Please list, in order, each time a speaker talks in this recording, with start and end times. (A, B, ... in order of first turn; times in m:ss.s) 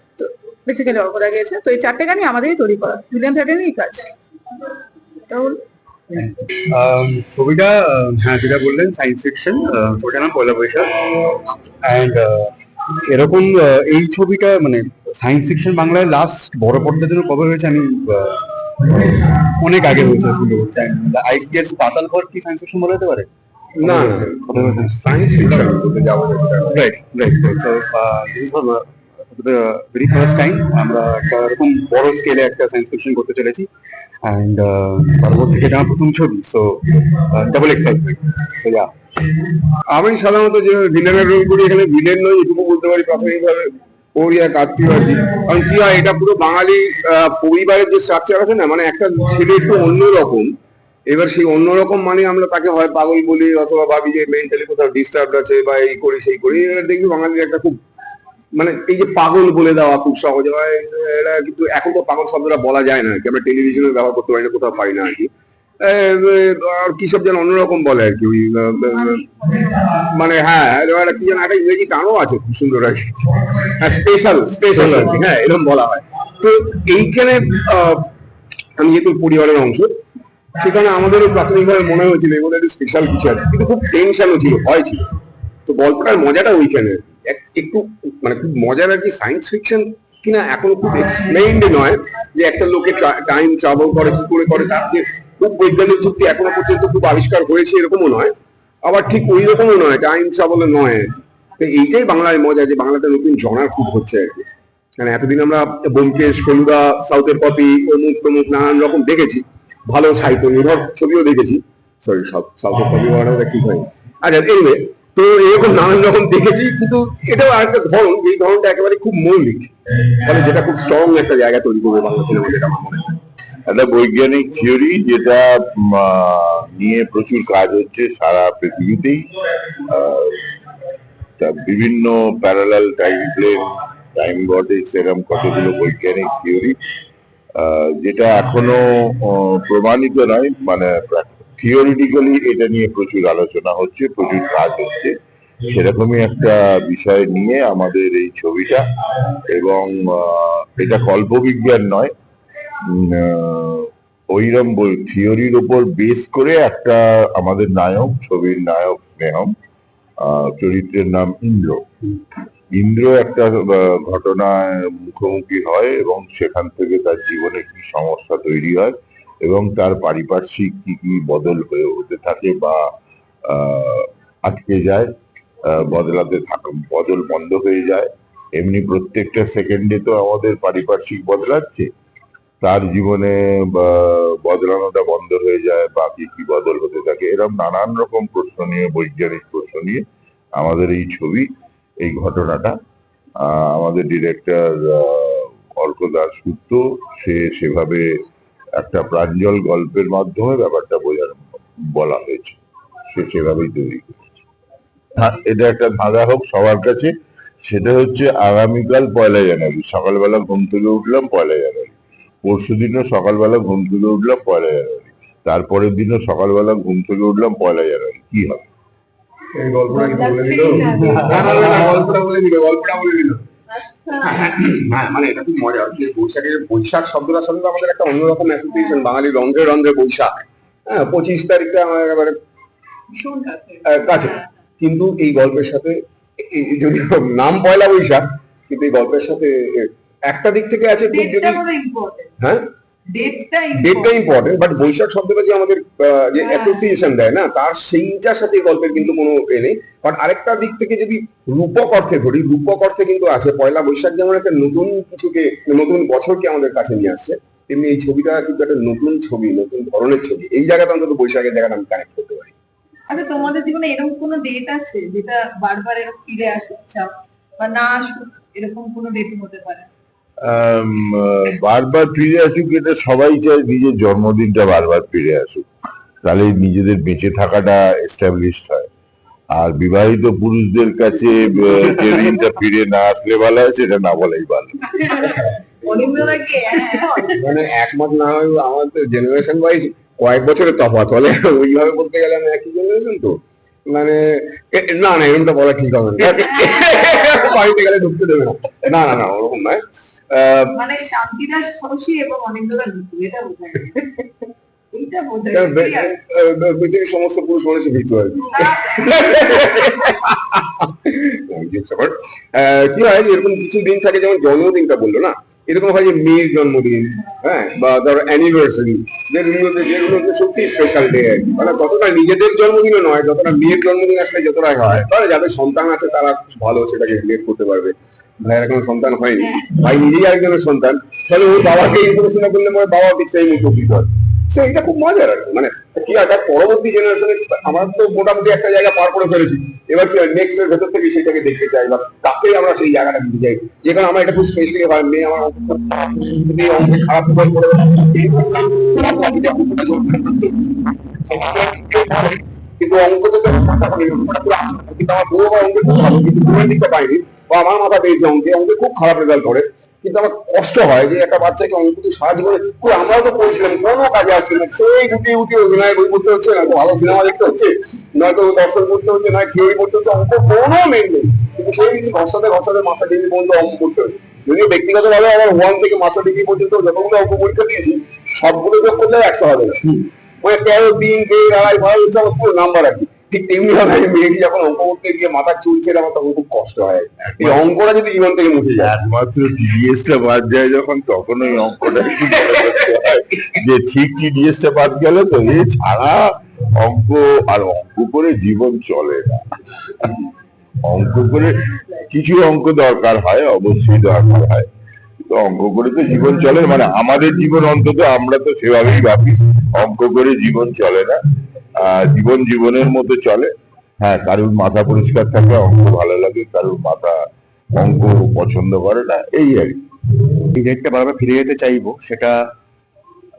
0:00.2-0:04.1 A
0:05.3-0:05.6 A
0:06.1-0:23.3 B
0:23.8-0:26.8 C
0:23.8-0:25.7 B
0:26.7-0:33.7 B
0:34.2-0:38.9 B
0:39.9-0:50.5 C
0:51.1-0:57.8 C
0:58.5-1:05.3 C
1:05.8-1:18.1 C
1:18.8-1:19.9 C
1:20.6-1:25.1 C
1:25.6-1:38.3 C
1:38.8-2:03.2 C
2:03.7-2:09.3 D
2:09.8-2:10.5 D
2:11.4-2:16.8 D
2:17.6-2:25.1 D
2:25.6-2:28.8 D
2:29.5-2:32.1 D
2:32.8-2:39.5 D
2:40.2-2:41.8 D
2:42.7-2:52.8 D
2:53.5-2:55.1 D
2:55.6-3:01.9 D
3:02.6-3:10.0 D
3:10.6-3:11.5 D
3:12.0-3:12.8 D
3:13.4-3:18.2 D
3:18.8-3:24.1 D
3:25.2-3:27.1 D
3:27.6-3:31.9 D
3:32.4-3:38.6 D
3:39.5-3:43.4 C
3:39.9-3:42.1 E
3:43.7-3:44.3 E
3:44.2-3:52.4 C
3:53.2-3:54.3 E
3:53.8-4:01.6 C
4:01.0-4:02.3 E
4:03.1-4:04.2 E
4:03.7-4:22.5 C
4:06.4-4:06.9 E
4:23.1-4:29.9 E
4:30.4-4:35.6 D
4:36.2-4:38.9 D
4:39.5-4:45.0 D
4:45.8-4:47.4 E
4:47.4-4:59.8 C
5:00.3-5:00.8 C
5:00.7-5:04.2 E
5:04.9-5:06.1 E
5:05.5-6:28.9 C
5:08.5-5:09.1 E
6:27.4-6:27.6 D
6:28.8-6:36.2 D
6:36.8-6:39.4 D
6:40.8-6:41.6 D
6:42.1-6:44.7 D
6:45.2-6:51.2 D
6:51.8-6:57.2 D
6:57.7-6:59.8 D
7:00.5-7:02.4 B